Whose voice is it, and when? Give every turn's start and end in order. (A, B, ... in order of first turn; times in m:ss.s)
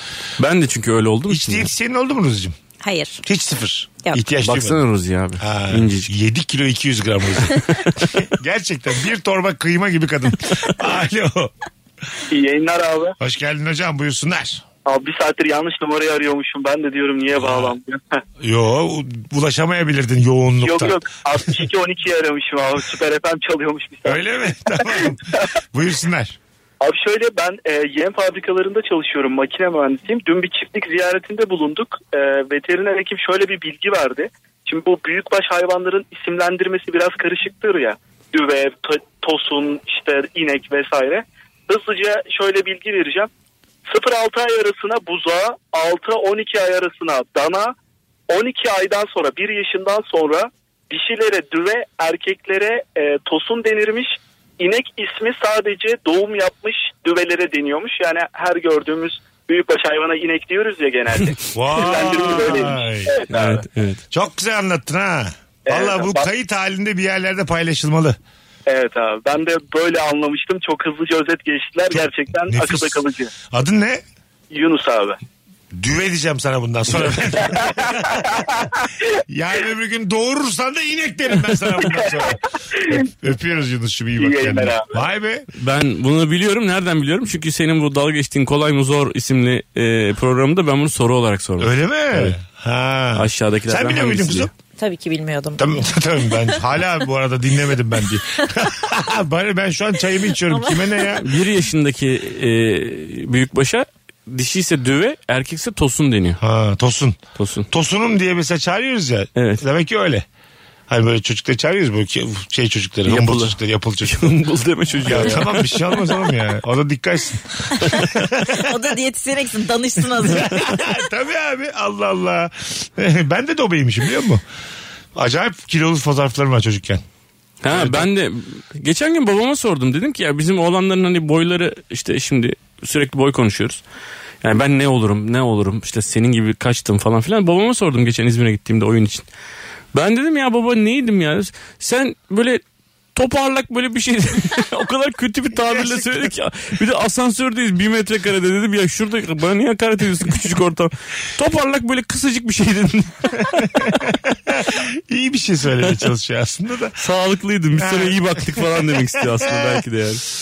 0:00.4-0:01.7 A
0:01.3-0:02.6 B
0:02.8-0:03.2 C
0:03.2-0:04.8 B
0:04.4-0:06.1 A
0:05.4-0:11.5 B
0:12.3-0:13.1 D
0:13.2-0:14.6 B
0:14.9-0:18.2 D
0:17.4-0:17.8 B
0:18.4-0:21.6 B
0:20.6-0:24.3 D
0:24.0-0:26.4 B
0:24.8-0:25.1 D
0:26.8-0:43.3 D
0:43.9-0:47.7 D
0:48.3-1:03.5 D
1:01.5-1:03.2 B
1:03.3-1:04.0 A
1:04.1-1:08.2 B
1:05.7-1:06.3 D
1:08.7-1:13.3 D
1:11.9-1:14.0 B
1:14.5-1:15.2 D
1:15.7-1:18.7 B
1:17.5-1:18.4 D
1:19.3-1:25.4 B
1:24.2-1:24.9 D
1:25.6-1:32.4 A
1:31.6-1:34.5 B
1:33.2-1:34.5 A
1:34.8-1:35.6 C
1:35.6-1:41.3 B
1:40.5-1:41.1 C
1:41.2-1:46.4 A
1:46.4-1:47.2 B
1:47.4-1:47.7 A
1:47.7-1:50.2 B
1:49.4-1:49.6 A
1:50.9-1:54.3 B
1:53.1-1:55.8 A
1:55.0-1:58.6 B
1:58.5-2:00.8 C
2:00.2-2:04.4 B
2:05.1-2:07.0 B
2:07.6-2:13.8 A
2:07.7-2:08.1 B
2:14.4-2:19.3 A
2:19.9-2:22.6 A
2:23.1-2:33.6 A
2:25.7-2:26.3 B
2:33.4-2:37.0 B
2:37.0-2:40.2 A
2:37.8-2:39.8 B